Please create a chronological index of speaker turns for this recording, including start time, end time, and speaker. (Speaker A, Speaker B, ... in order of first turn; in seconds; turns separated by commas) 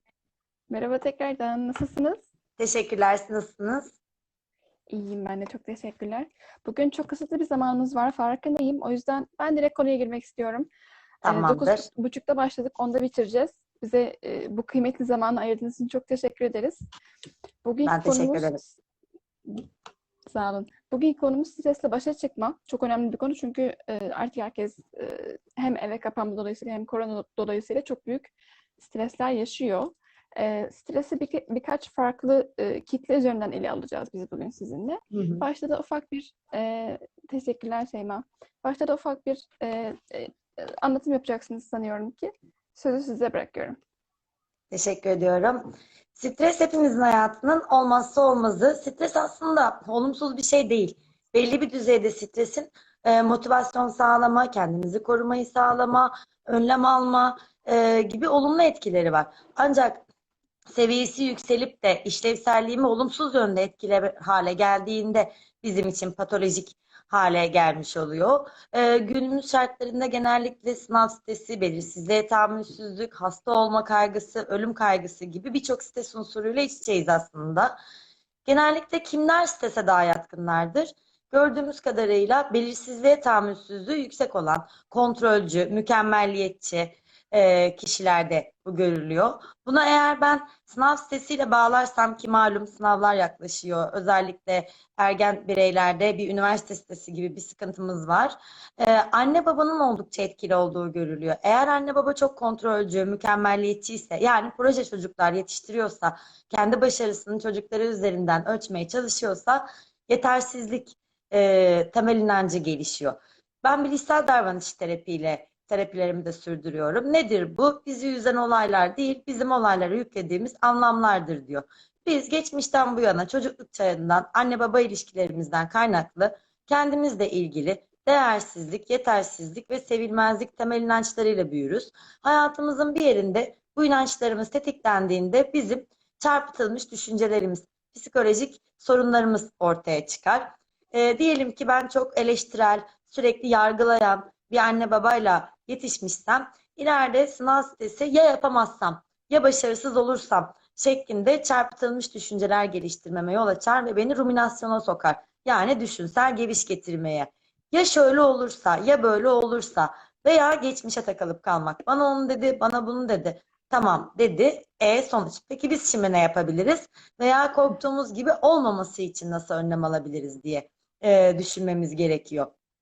Speaker A: 0.7-2.2, Speaker B: 2.6-3.9, Speaker A: 4.9-10.7, Speaker B: 11.2-11.9, Speaker A: 11.2-16.8, Speaker A: 17.6-18.8, Speaker B: 17.8-18.6, Speaker A: 20.3-43.8, Speaker B: 35.1-35.4, Speaker B: 44.7-45.6, Speaker B: 46.1-60.0, Speaker B: 60.7-77.8, Speaker B: 78.5-172.5